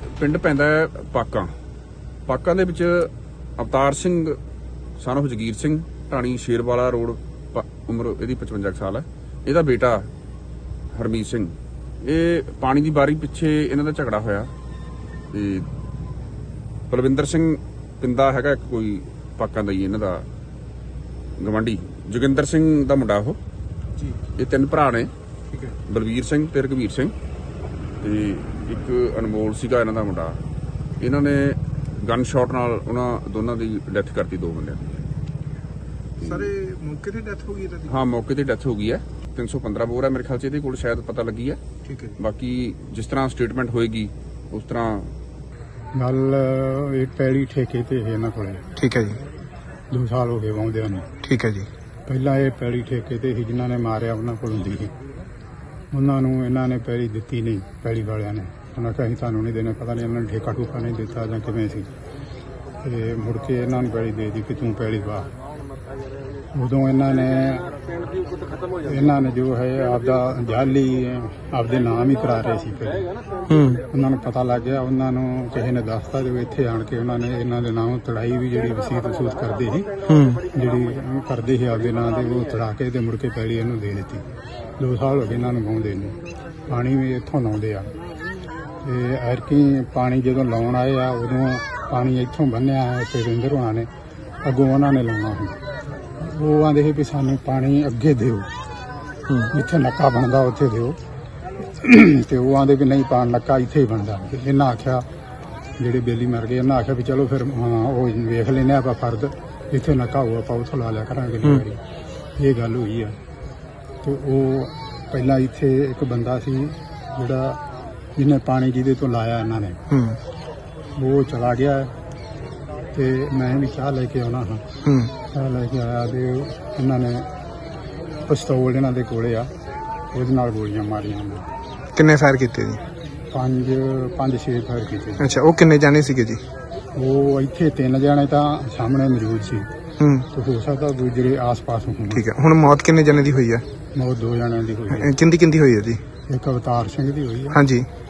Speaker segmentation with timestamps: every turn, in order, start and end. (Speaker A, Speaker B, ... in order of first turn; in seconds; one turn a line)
Speaker A: 0.2-1.5
Speaker A: 2.3-4.4
Speaker A: 5.0-10.1
Speaker A: 10.9-11.5
Speaker A: 12.0-14.5
Speaker A: 15.3-15.7
Speaker A: 16.9-20.2
Speaker A: 21.4-23.4
Speaker A: 24.4-25.1
Speaker A: 25.9-27.1
Speaker A: 28.0-30.4
Speaker A: 31.0-35.0
Speaker A: 36.2-36.5
Speaker B: 36.2-38.0
Speaker A: 37.9-41.6
Speaker B: 41.9-42.1
Speaker A: 42.2-45.1
Speaker C: 45.9-48.6
Speaker D: 48.8-49.2
Speaker C: 49.9-51.1
Speaker D: 51.2-51.7
Speaker C: 52.1-54.9
Speaker C: 55.9-61.9
Speaker C: 62.8-65.3
Speaker C: 66.5-67.7
Speaker C: 68.8-73.1
Speaker D: 73.5-73.8
Speaker C: 73.9-79.9
Speaker D: 80.0-80.4
Speaker C: 80.5-84.2
Speaker C: 84.8-86.2
Speaker C: 86.7-87.9
Speaker C: 88.8-93.9
Speaker C: 94.4-95.6
Speaker C: 96.2-98.5
Speaker C: 99.5-101.0
Speaker C: 101.7-105.0
Speaker C: 105.8-111.8
Speaker C: 112.4-113.2
Speaker C: 114.0-117.6
Speaker C: 118.2-119.8
Speaker D: 119.9-120.2
Speaker C: 121.0-121.9
Speaker C: 122.9-124.7
Speaker D: 124.8-125.1
Speaker C: 125.3-127.3
Speaker C: 128.2-129.5
Speaker C: 130.1-131.5
Speaker D: 131.9-132.8
Speaker C: 133.3-135.3
Speaker D: 135.2-136.4
Speaker C: 136.9-139.7
Speaker D: 140.0-140.2
Speaker C: 140.3-142.3
Speaker D: 142.1-143.6
Speaker C: 143.9-145.1
Speaker D: 144.9-146.0
Speaker C: 146.3-147.6
Speaker D: 147.5-147.9